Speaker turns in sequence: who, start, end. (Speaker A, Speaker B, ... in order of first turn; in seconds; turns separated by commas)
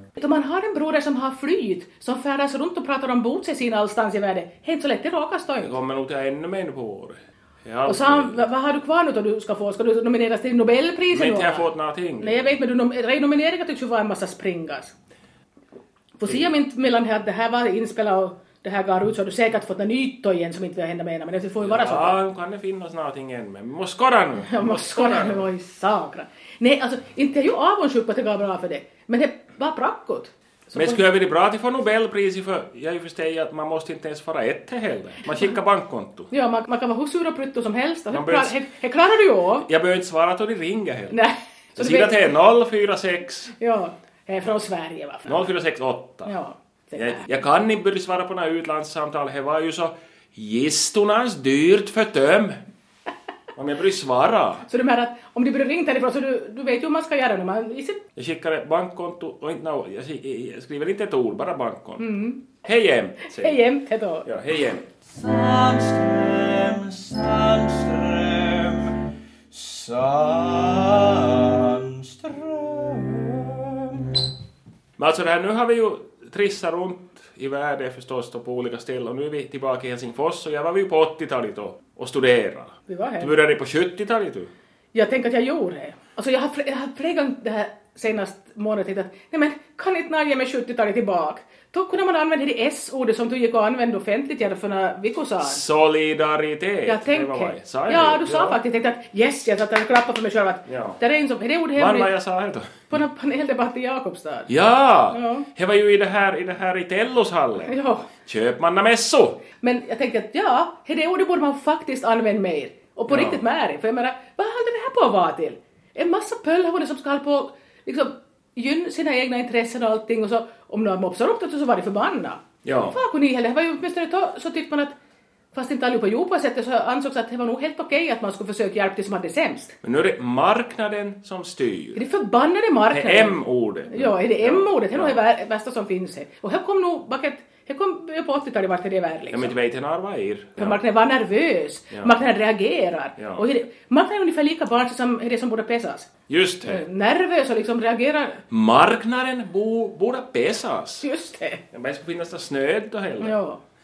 Speaker A: 0.2-5.7, Speaker B: 5.6-8.4, Speaker A: 7.9-11.7, Speaker B: 11.1-12.6, Speaker A: 12.2-14.9, Speaker A: 16.2-22.2, Speaker B: 21.6-25.5, Speaker A: 24.5-31.0, Speaker B: 30.7-36.3, Speaker A: 36.3-39.7, Speaker B: 38.1-38.6, Speaker B: 39.7-41.2, Speaker A: 41.1-42.2, Speaker B: 41.8-43.5, Speaker A: 43.6-45.4, Speaker B: 45.3-46.3, Speaker A: 46.3-47.3, Speaker B: 47.0-52.6, Speaker B: 53.5-54.7, Speaker A: 54.7-58.0, Speaker B: 58.2-62.1, Speaker A: 62.0-62.4, Speaker B: 62.6-63.6, Speaker A: 63.4-64.3, Speaker B: 64.2-64.8, Speaker C: 65.1-74.2, Speaker B: 75.0-84.5, Speaker A: 82.9-83.3, Speaker A: 84.9-95.6, Speaker B: 95.4-98.6, Speaker A: 96.9-102.1, Speaker B: 100.7-101.0, Speaker B: 101.8-102.9, Speaker A: 102.9-104.5, Speaker B: 104.5-109.4, Speaker A: 105.1-105.5, Speaker A: 107.7-108.1, Speaker A: 109.6-125.0, Speaker B: 113.1-113.4, Speaker B: 122.6-123.0, Speaker A: 125.5-129.8, Speaker B: 129.8-132.0, Speaker A: 132.0-139.5, Speaker B: 132.9-135.2, Speaker B: 139.3-140.8, Speaker A: 140.6-146.1, Speaker B: 143.2-143.4, Speaker B: 146.3-146.8, Speaker A: 146.6-148.4, Speaker B: 148.5-151.1, Speaker A: 151.0-151.6, Speaker B: 151.7-153.4, Speaker A: 153.2-153.6